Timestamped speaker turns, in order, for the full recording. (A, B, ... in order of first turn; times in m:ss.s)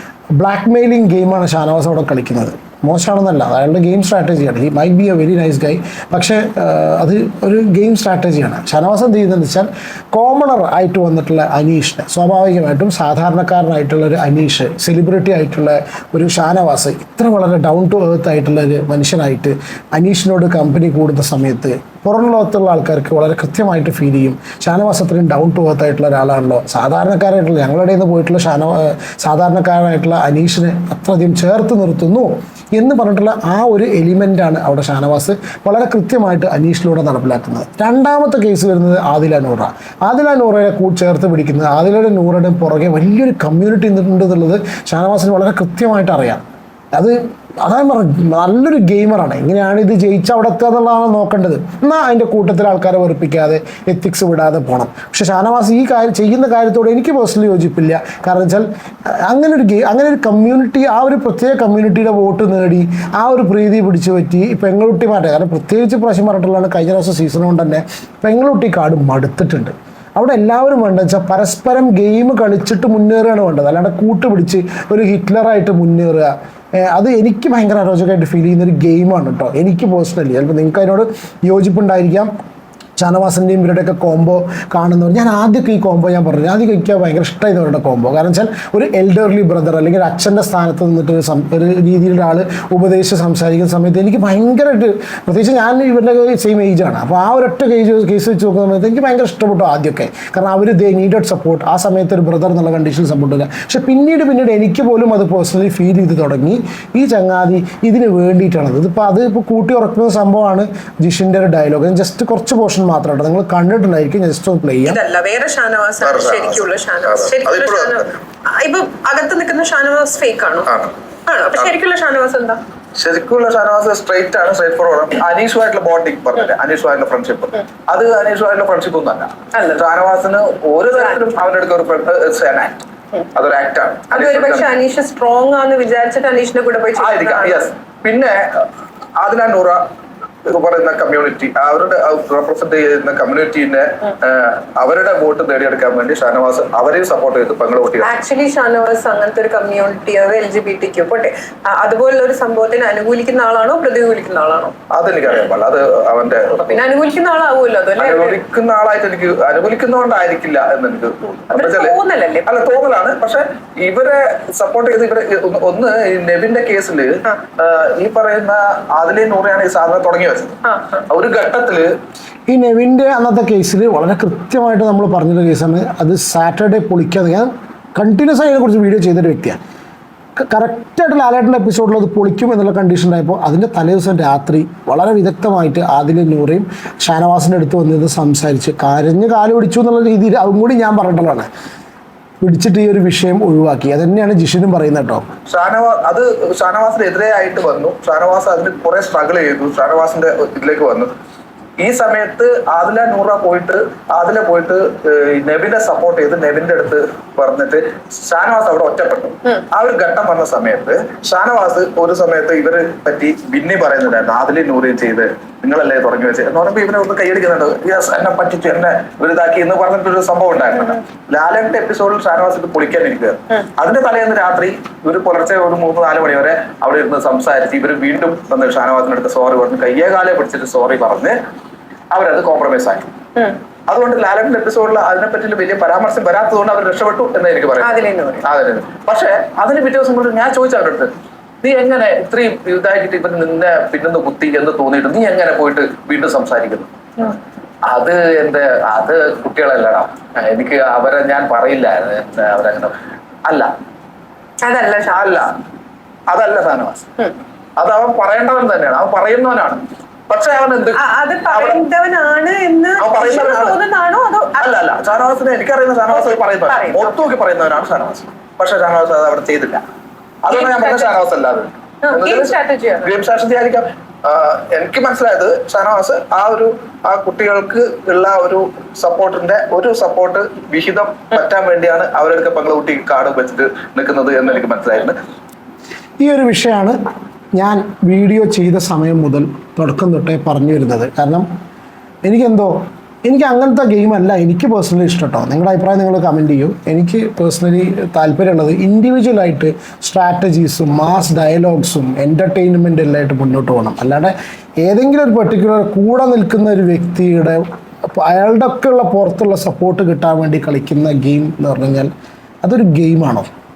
0:00.4-1:22.3 A
1:23.0-1:55.0 A
1:54.8-2:00.7 B
1:56.0-1:58.1 C
2:00.7-2:00.9 C
2:01.3-2:02.6 B
2:03.0-2:12.8 C
2:09.5-2:09.8 B
2:10.9-2:11.2 B
2:13.3-2:14.7 C
2:14.1-2:17.7 B
2:17.0-2:18.6 C
2:19.2-2:19.8 C
2:20.5-2:28.1 C
2:28.0-2:34.7 B
2:34.9-2:36.8 C
2:36.7-2:38.4 B
2:38.0-2:51.9 C
2:41.5-2:42.5 B
2:50.6-2:51.0 B
2:52.5-2:59.6 A
3:00.4-3:11.5 A
3:12.4-3:15.2 A
3:15.5-3:21.1 C
3:21.8-3:51.4 C
3:52.1-3:53.1 C
3:53.9-4:06.9 C
3:57.8-3:58.4 B
4:07.8-4:12.9 C
4:14.6-4:15.4 B
4:15.1-4:15.5 C
4:16.3-4:17.0 C
4:17.8-4:21.9 C
4:20.9-4:24.8 B
4:23.0-4:23.8 C
4:24.6-4:29.8 C
4:26.1-4:27.2 B
4:30.4-4:45.2 C
4:30.5-4:31.1 B
4:32.0-4:33.2 B
4:46.2-4:47.0 A
4:47.6-4:51.5 A
4:52.2-5:12.1 A
5:12.6-5:13.5 A